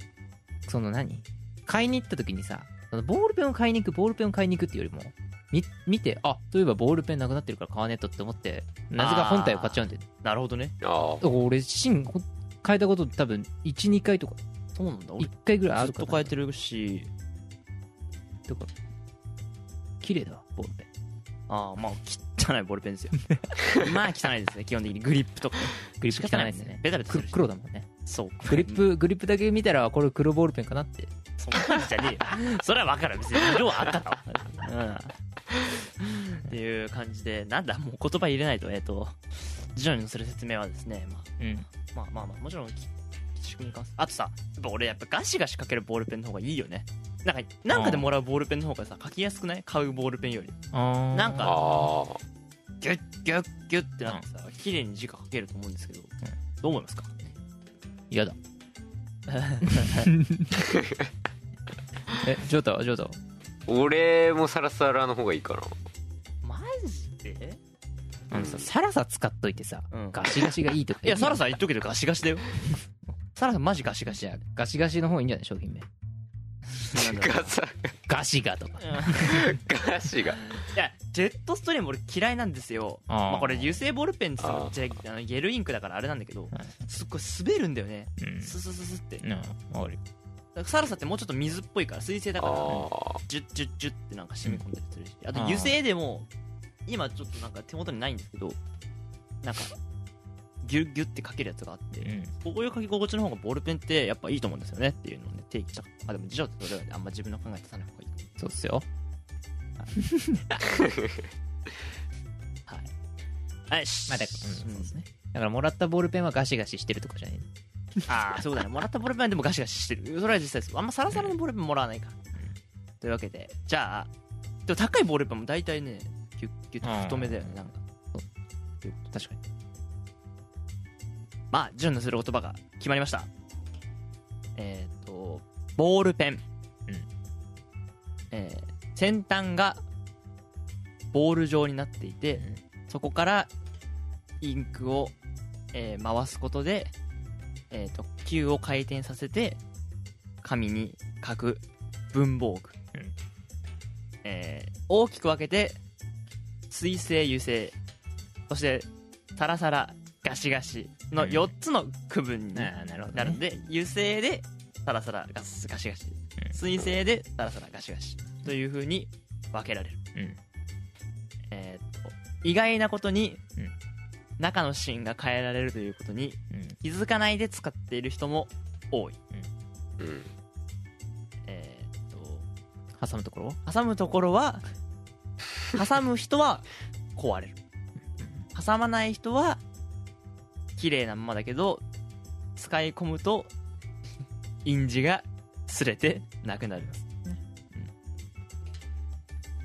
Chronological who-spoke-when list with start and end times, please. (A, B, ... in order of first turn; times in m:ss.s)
0:00.7-0:10.0 A
0:09.0-0:10.7 B
0:10.8-0:11.2 C
0:11.2-0:14.4 A
0:14.7-0:17.1 B
0:15.2-0:16.3 A
0:18.5-0:18.7 A
0:20.0-0:20.9 A
0:21.5-0:27.5 B
0:26.0-0:27.9 A
0:28.0-0:28.8 B
0:28.5-0:31.1 A
0:31.4-0:35.2 B
0:36.0-0:50.6 B
0:41.4-0:41.6 A
0:47.7-0:48.1 A
0:50.7-0:51.6 A
0:51.1-0:51.6 B
0:51.4-0:52.2 C
0:52.8-0:57.1 B
0:58.1-0:58.4 A
0:59.3-1:00.1 B
0:59.7-1:00.6 A
1:02.2-1:03.2 A
1:03.7-1:05.8 C
1:06.4-1:07.6 B
1:08.3-1:11.4 A
1:08.3-1:08.7 C
1:09.9-1:10.3 B
1:11.0-1:12.5 B
1:13.4-1:14.4 B
1:14.1-1:15.9 A
1:16.9-1:17.5 B
1:16.9-1:17.9 C
1:18.1-1:19.5 A
1:18.8-1:19.3 B
1:19.2-1:20.6 C
1:20.7-1:29.2 B
1:23.1-1:23.8 A
1:24.4-1:24.9 C
1:28.2-1:28.5 A
1:29.2-1:30.0 A
1:30.5-1:36.3 B
1:32.4-1:33.2 C
1:35.3-1:35.8 A
1:36.9-1:38.6 B
1:39.4-1:39.7 B
1:40.6-1:48.2 B
1:42.0-1:42.3 A
1:48.4-1:48.8 A
1:53.7-1:54.9 B
1:54.1-1:57.5 A
1:58.1-2:02.2 B
2:03.0-2:04.1 B
2:04.7-2:07.8 B
2:06.8-2:07.6 A
2:09.1-2:09.4 A
2:11.5-2:13.3 B
2:14.6-2:16.4 B
2:18.3-2:19.8 B
2:21.1-2:23.5 B
2:24.4-2:25.1 B
2:25.7-2:26.9 B
2:27.7-2:29.6 B
2:30.4-2:32.8 B
2:34.2-2:35.8 B
2:36.7-2:37.7 B
2:38.5-2:50.0 B
2:41.2-2:41.5 A
2:42.5-2:43.4 A
2:51.5-2:53.4 B
2:54.4-2:59.2 B
3:00.0-3:00.3 C
3:01.5-3:02.4 B
3:03.0-3:03.6 A
3:03.6-3:04.6 B
3:05.7-3:07.6 B
3:08.2-3:08.4 A
3:08.5-3:09.6 B
3:10.8-3:11.8 B
3:12.6-3:13.5 B
3:14.6-3:17.0 B
3:17.1-3:17.9 A